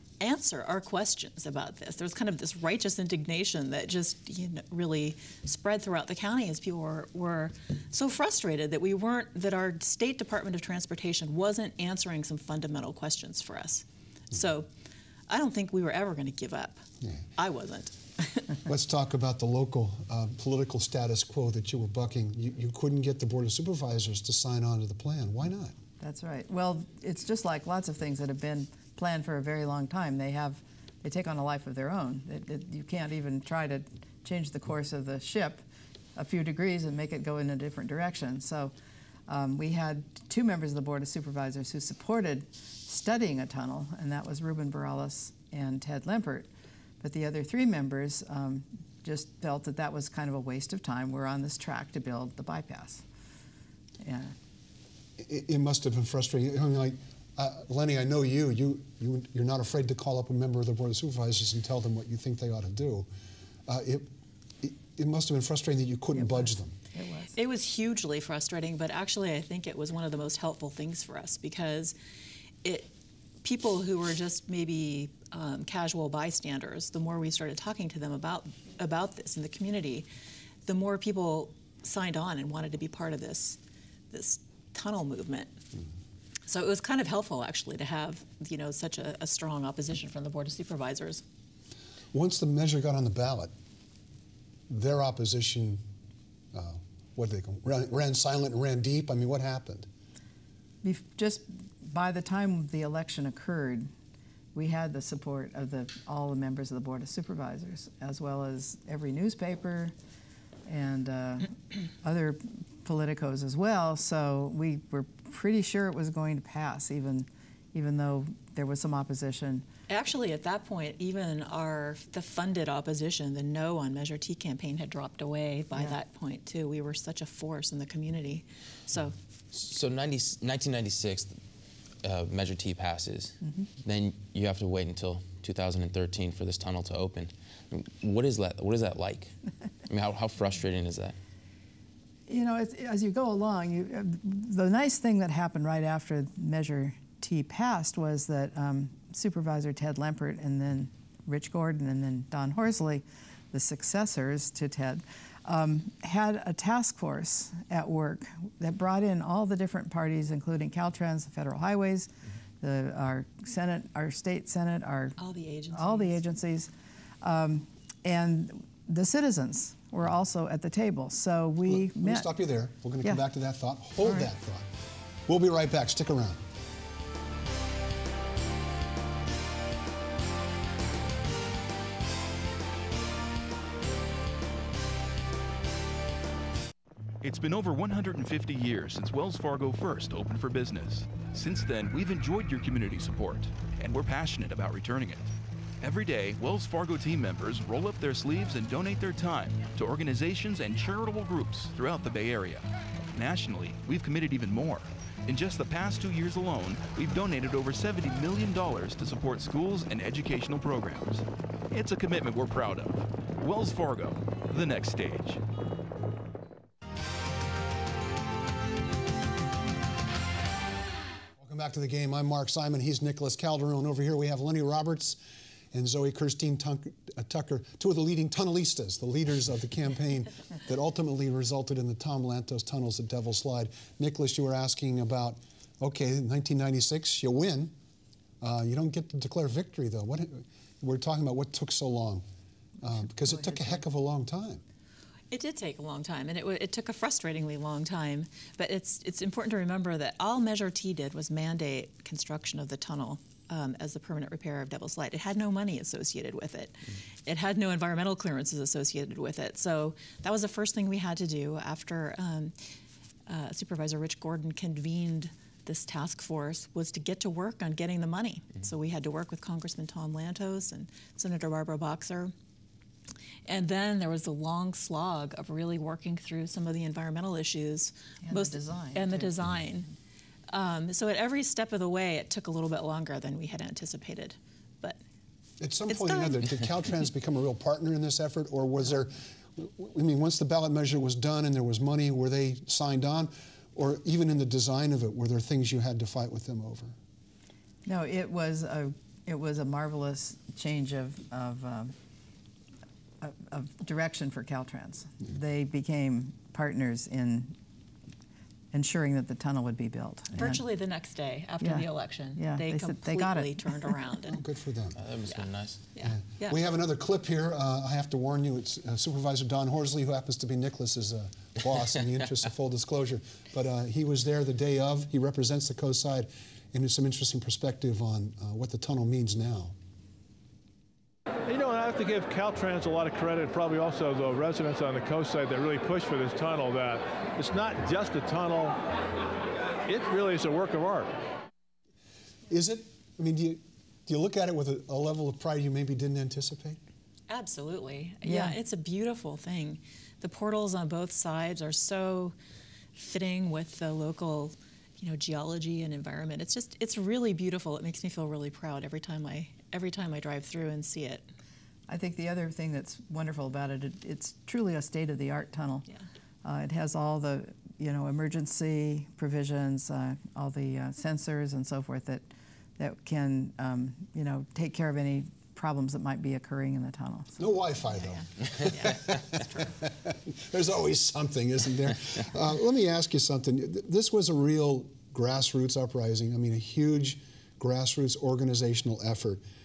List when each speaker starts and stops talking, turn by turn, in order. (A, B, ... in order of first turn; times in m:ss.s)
0:00.2-0:14.7 A
0:15.3-0:16.8 A
0:17.4-0:18.6 A
0:18.7-0:25.8 B
0:26.0-0:35.6 C
0:36.2-0:38.7 C
0:39.3-0:46.5 C
0:47.0-0:53.0 C
0:54.0-0:54.4 C
0:55.2-1:03.1 B
1:03.7-1:04.1 B
1:04.6-1:06.8 B
1:06.1-1:07.4 C
1:07.3-1:12.0 A
1:12.6-1:12.9 A
1:13.4-1:20.1 A
1:20.7-1:23.6 A
1:24.1-1:25.6 A
1:26.5-1:31.2 A
1:32.1-1:33.5 B
1:34.7-1:35.8 B
1:36.5-1:39.9 B
1:40.8-1:43.9 C
1:44.6-1:49.9 C
1:50.7-1:59.7 C
1:59.9-2:09.2 A
2:09.5-2:11.4 D
2:12.0-2:19.4 D
2:13.4-2:13.7 C
2:19.9-2:21.2 D
2:22.3-2:42.1 C
2:42.6-2:45.2 C
2:45.2-2:46.1 A
2:45.7-2:46.7 C
2:47.2-2:52.3 C
2:51.7-2:54.7 B
2:55.3-2:56.4 B
3:07.2-3:35.4 E
3:41.4-3:45.2 B
3:45.7-3:57.7 B
3:58.4-4:02.2 B
4:02.8-4:04.6 B
4:03.3-4:03.8 C
4:05.3-4:22.6 A
4:23.3-4:32.3 A
4:33.5-4:39.9 A
4:38.2-4:39.3 C
4:40.5-4:45.0 A
4:45.6-4:57.0 B
4:45.9-4:46.4 A
4:57.8-5:01.9 C
5:03.2-5:07.6 C
5:08.7-5:10.6 C
5:10.4-5:14.4 A
5:11.6-5:14.0 C
5:14.3-5:15.0 B
5:15.0-5:15.8 D
5:15.3-5:16.6 A
5:16.0-5:29.8 B
5:31.5-5:38.8 F
5:39.8-5:41.2 F
5:42.5-5:46.8 B
5:47.3-5:52.4 A
5:48.2-5:48.6 C
5:53.0-6:01.3 A
6:01.9-6:05.9 C
6:06.4-6:17.4 C
6:17.4-6:29.4 B
6:17.9-6:19.8 A